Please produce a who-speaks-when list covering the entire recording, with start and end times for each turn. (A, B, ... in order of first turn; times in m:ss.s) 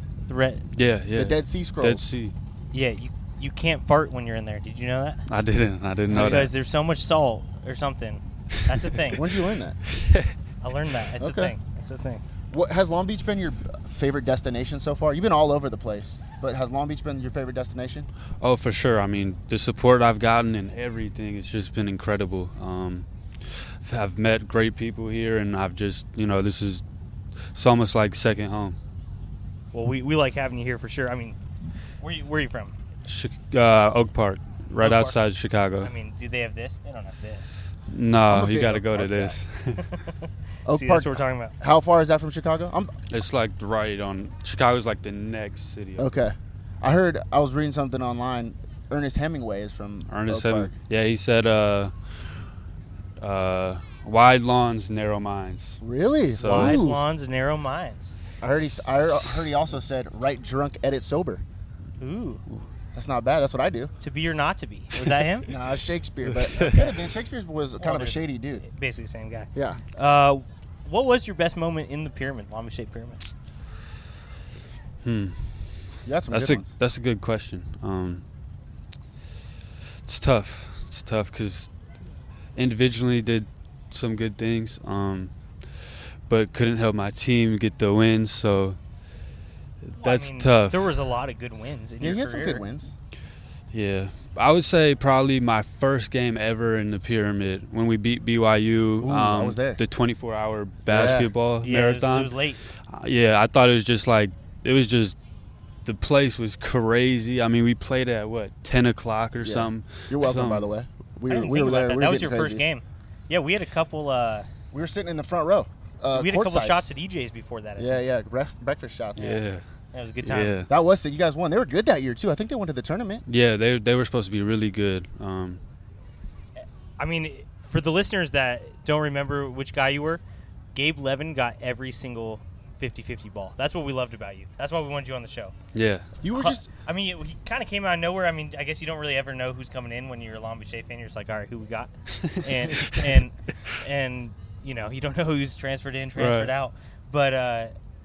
0:00.2-0:00.7 A
0:00.7-0:02.4 B
0:01.1-0:02.0 C
0:02.7-0:05.2 A
0:05.3-0:06.5 B
0:06.1-0:09.2 A
0:09.1-0:09.8 C
0:09.9-0:10.3 B
0:10.6-0:12.2 A
0:11.2-0:11.6 C
0:12.5-0:18.1 C
0:18.4-0:26.8 B
0:27.5-0:28.8 B
0:29.7-0:31.4 A
0:32.0-0:32.8 A
0:33.1-0:35.9 B
0:34.8-0:35.2 A
0:35.8-0:37.6 A
0:37.9-0:39.9 B
0:38.3-0:39.4 C
0:39.9-0:41.6 A
0:40.7-0:42.9 C
0:43.1-0:46.2 B
0:46.0-0:50.7 C
0:50.1-0:52.2 B
0:53.2-0:55.8 B
0:55.8-0:57.0 C
0:56.3-0:56.9 B
0:56.4-0:58.2 A
0:58.4-1:01.4 C
0:59.0-0:59.5 B
1:02.0-1:02.4 A
1:03.0-1:03.9 C
1:04.0-1:05.5 A
1:05.5-1:08.6 C
1:06.4-1:06.8 B
1:07.8-1:13.3 A
1:15.0-1:18.2 B
1:16.0-1:16.7 C
1:20.1-1:21.7 B
1:22.6-1:28.8 B
1:29.8-1:30.9 B
1:30.0-1:32.6 A
1:32.0-1:32.9 C
1:33.7-1:45.2 B
1:39.0-1:39.8 C
1:40.9-1:41.3 C
1:41.6-1:42.6 A
1:45.8-1:50.7 B
1:49.4-1:52.6 C
1:51.3-1:54.5 A
1:54.7-1:56.9 C
1:56.1-1:58.1 A
1:57.8-1:59.4 C
1:59.2-1:59.6 B
1:59.9-2:00.6 A
2:00.2-2:00.7 B
2:00.7-2:03.2 C
2:03.3-2:05.6 B
2:07.0-2:10.2 A
2:10.7-2:15.6 A
2:15.7-2:16.1 B
2:16.2-2:16.7 C
2:16.3-2:27.7 A
2:26.2-2:26.5 B